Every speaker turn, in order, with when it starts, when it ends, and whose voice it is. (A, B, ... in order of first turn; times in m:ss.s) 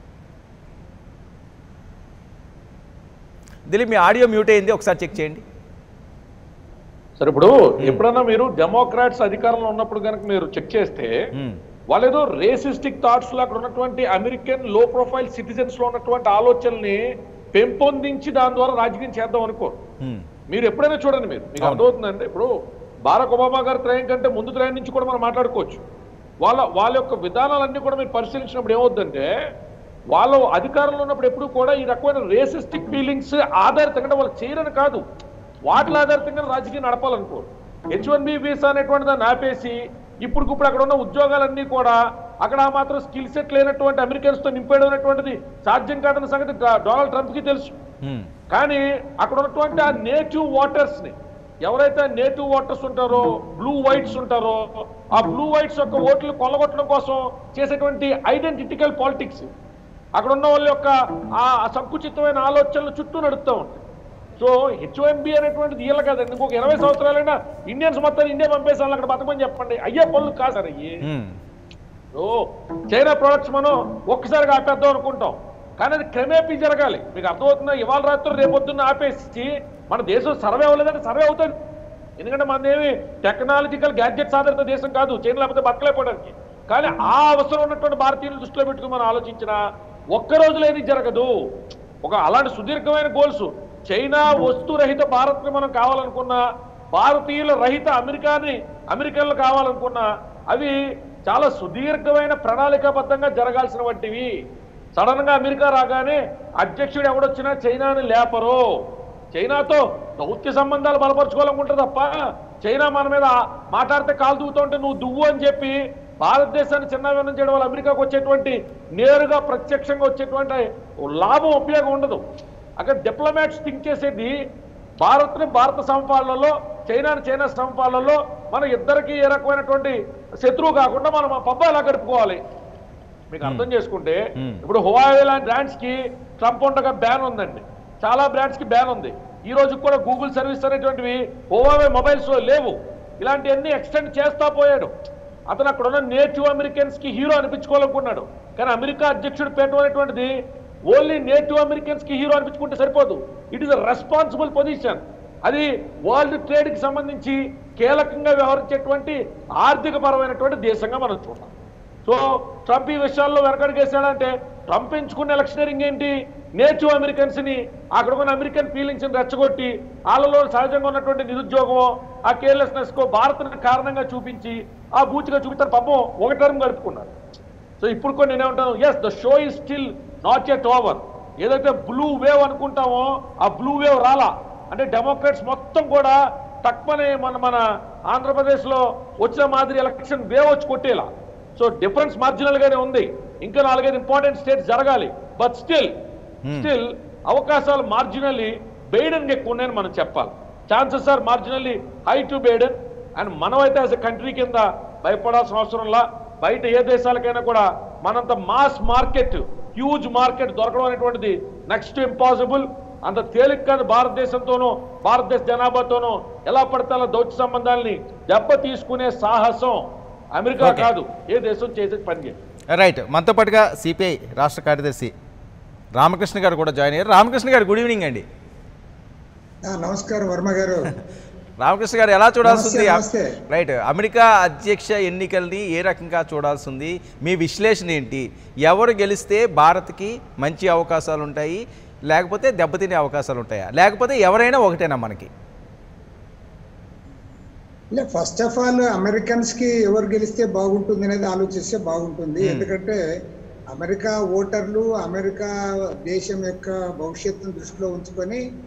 0:03.7-0:05.4 A
0:07.2-0:11.3 B
0:11.4-0:11.6 A
0:11.9-0:17.0 B
0:17.5-0:19.8 B
0:20.0-0:20.3 A
0:20.5-0:22.5 B
0:23.1-0:25.8 B
0:26.4-0:29.3 B
0:30.1-0:35.0 B
0:35.7-0:47.8 B
0:48.0-0:48.3 A
0:48.5-0:59.5 B
1:00.2-1:03.8 B
1:04.4-1:11.0 B
1:11.0-1:11.4 A
1:12.2-1:21.6 B
1:22.2-1:29.6 B
1:30.1-1:31.3 B
1:32.0-1:36.4 B
1:36.9-1:40.8 B
1:41.3-1:44.3 B
1:45.0-1:48.6 B
1:49.4-2:02.2 B
2:02.8-2:04.4 B
2:05.0-2:12.4 B
2:13.3-2:24.9 B
2:25.5-2:30.3 B
2:30.9-2:41.5 B
2:42.1-2:57.1 B
2:57.8-3:15.9 B
3:16.6-3:39.8 B
3:40.4-3:42.4 B
3:40.6-3:40.9 A
3:42.8-3:45.1 A
3:46.0-3:48.2 A
3:49.7-3:50.9 C
3:51.6-4:05.3 A
3:52.4-3:53.3 C
4:07.9-4:13.0 C
4:12.4-4:12.7 A
4:13.8-4:15.5 C
4:16.1-4:18.4 C